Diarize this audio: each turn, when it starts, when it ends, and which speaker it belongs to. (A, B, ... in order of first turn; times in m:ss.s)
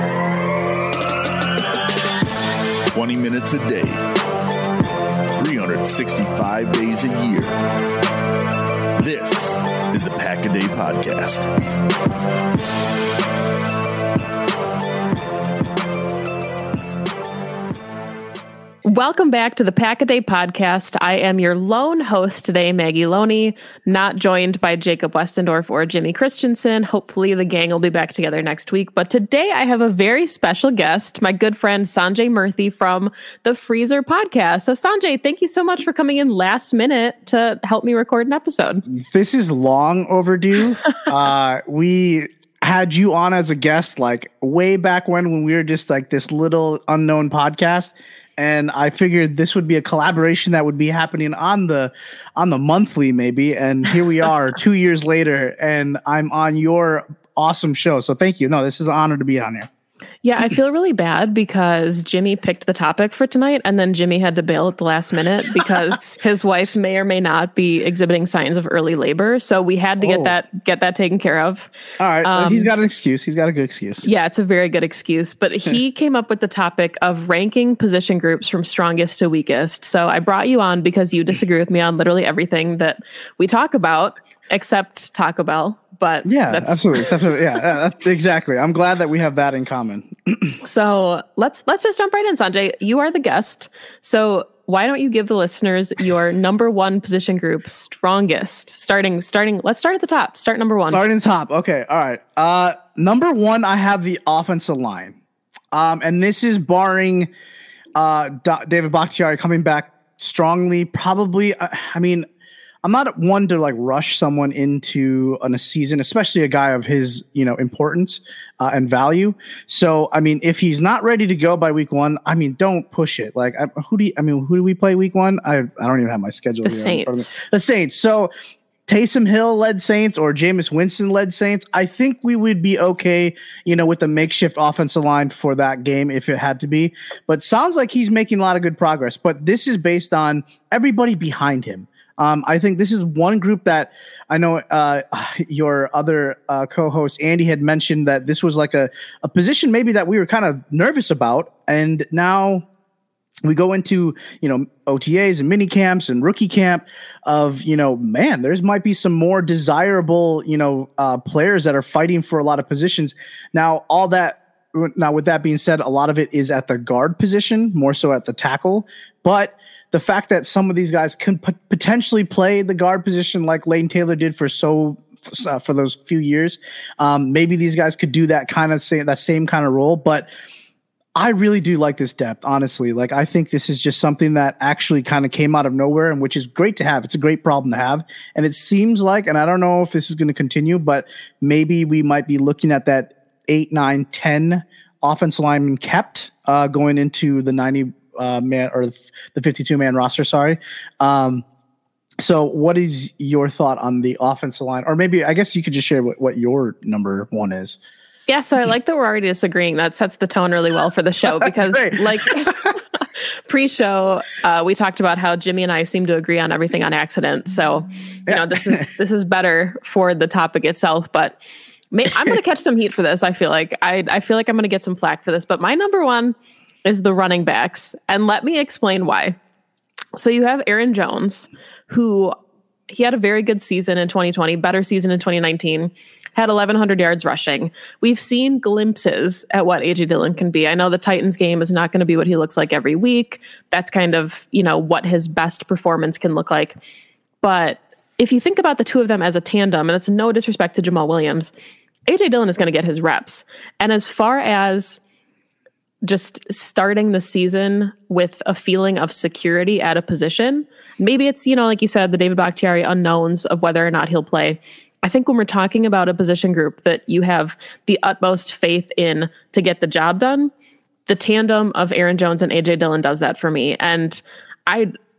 0:02.9-0:04.1 A
0:05.3-0:07.8 A
0:09.0-0:11.5 A
0:18.8-0:38.8 B
0:38.9-0:59.7 C
1:00.2-1:11.7 B
1:10.0-1:10.3 C
1:12.0-1:14.1 C
1:12.2-1:12.7 B
1:14.0-1:27.2 B
1:26.2-1:30.6 C
1:30.6-1:41.0 B
1:40.9-1:45.2 C
1:45.7-1:47.3 C
1:48.0-1:52.3 C
1:52.8-2:08.3 C
2:06.6-2:07.4 B
2:08.9-2:32.6 C
2:33.4-3:00.3 C
3:01.2-3:21.4 C
3:22.2-3:27.8 C
3:28.3-3:32.7 B
3:31.3-3:32.7 C
3:33.5-3:41.4 B
3:38.3-3:38.8 C
3:41.9-3:49.4 B
3:50.2-3:52.3 B
3:52.9-4:06.7 B
4:07.4-4:11.5 B
4:12.1-4:15.0 B
4:16.0-4:30.5 B
4:31.1-4:34.9 B